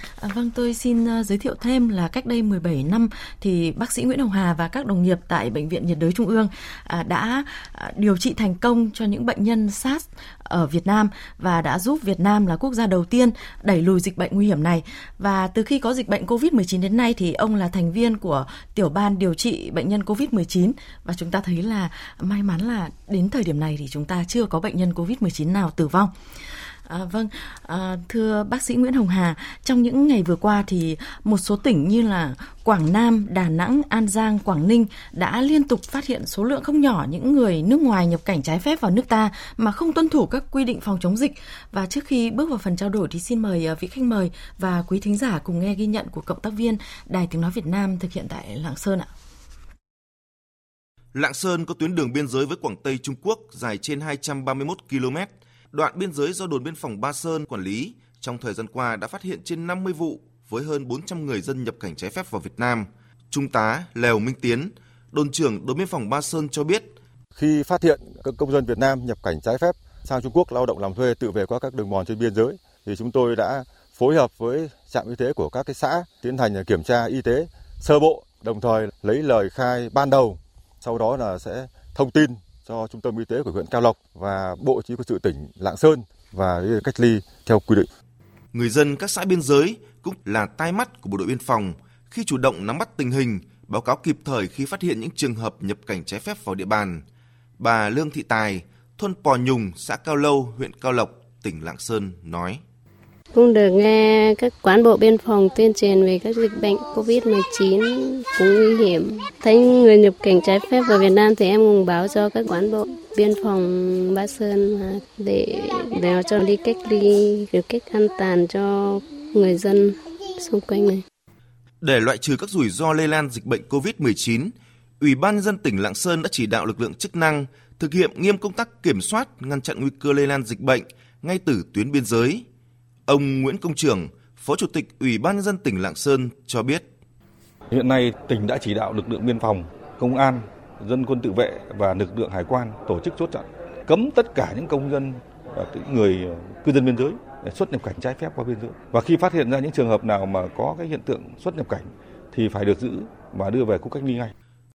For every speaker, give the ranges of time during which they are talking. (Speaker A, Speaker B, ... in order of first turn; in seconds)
Speaker A: 0.2-49.1
Speaker B: 51.1-66.9, 88.5-97.0, 97.6-102.6, 121.8-132.5, 133.1-136.9
Speaker C: 67.3-87.9
Speaker D: 103.3-121.0
Speaker E: 137.7-154.3